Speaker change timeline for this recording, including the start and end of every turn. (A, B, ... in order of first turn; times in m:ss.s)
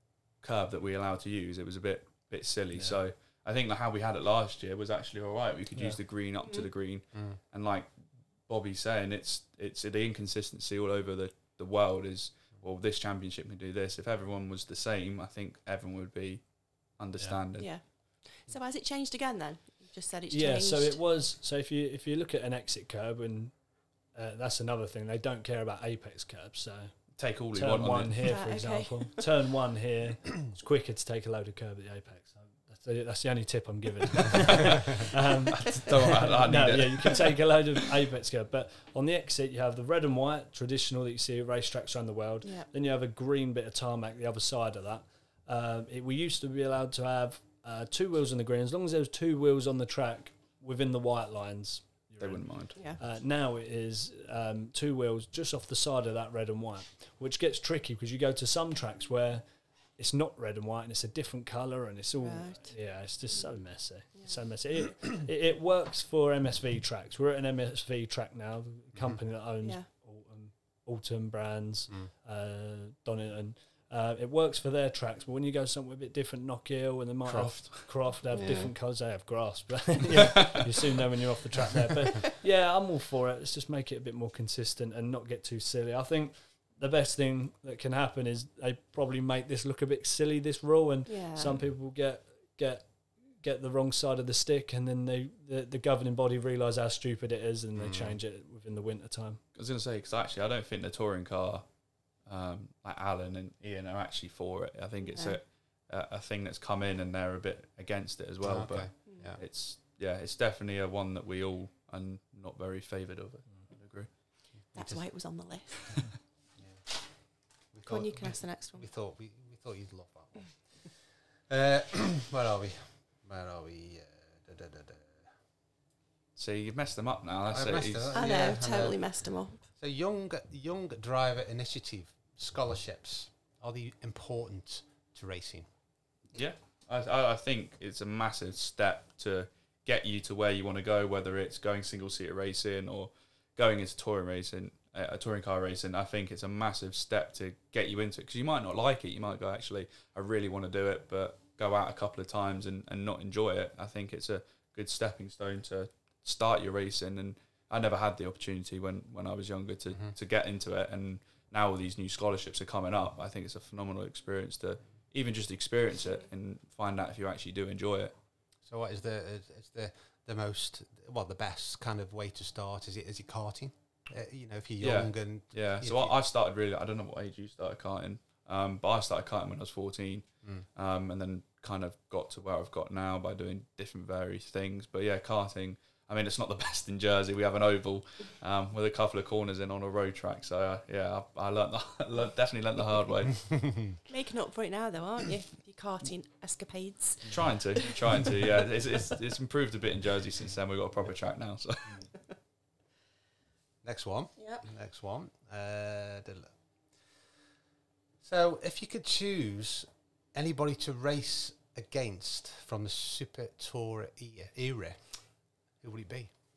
0:00.4-0:18.2 A
0:02.7-0:03.0 B
0:06.4-0:06.7 C
0:07.1-0:07.4 D
0:17.6-0:21.0 C
0:20.3-1:39.4 B
0:27.2-0:28.4 A
0:28.2-0:29.2 C
0:35.6-0:37.3 A
0:42.4-0:42.7 C
0:52.2-0:52.9 A
1:02.2-1:04.4 C
1:09.6-1:09.9 C
1:17.2-1:18.1 A
1:18.3-1:18.7 C
1:18.4-1:18.6 D
1:31.0-1:31.6 C
1:37.7-1:38.2 D
1:39.5-1:54.2 A
1:45.1-1:45.4 C
1:48.4-1:49.4 D
1:49.0-1:49.4 C
1:54.6-1:55.1 D
1:54.7-1:56.1 C
1:56.6-2:05.4 D
1:57.8-1:58.9 C
2:06.4-2:08.6 A
2:07.5-2:15.6 D
2:08.1-2:09.6 C
2:16.3-2:48.1 A
2:48.6-2:56.1 D
2:54.8-3:13.9 A
3:14.0-3:18.3 C
3:17.3-3:22.1 A
3:23.8-3:27.3 D
3:24.4-3:24.6 C
3:28.2-3:36.3 D